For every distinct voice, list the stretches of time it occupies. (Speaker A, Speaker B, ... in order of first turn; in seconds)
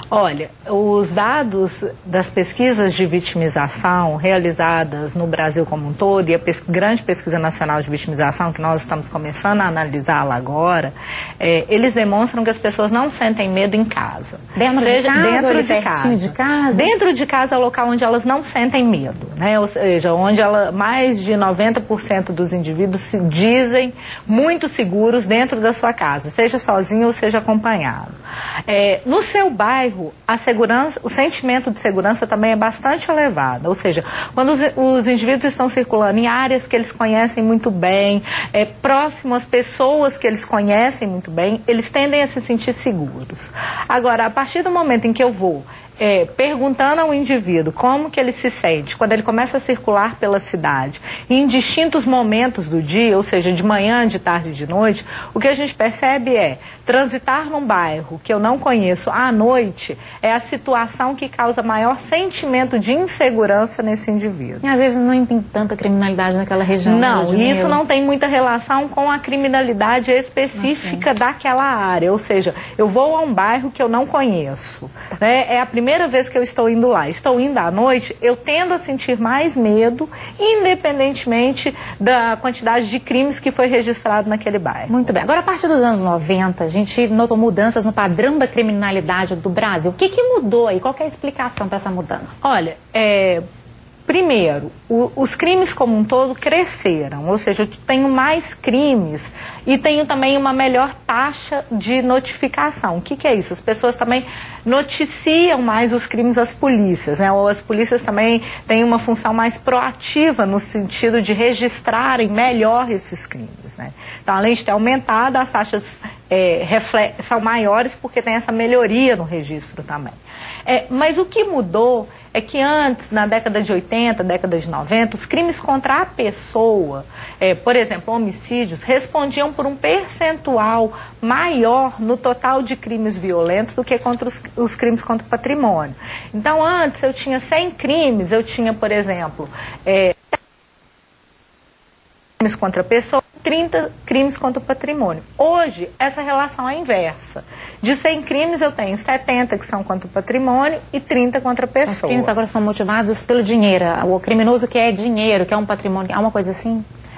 Speaker A: 0.1-28.1, 28.7-64.6, 66.8-84.9, 92.4-93.4, 94.1-140.2, 142.4-152.3
Speaker B: 14.6-16.9, 64.6-67.8, 70.7-71.0, 84.9-92.4, 151.8-156.8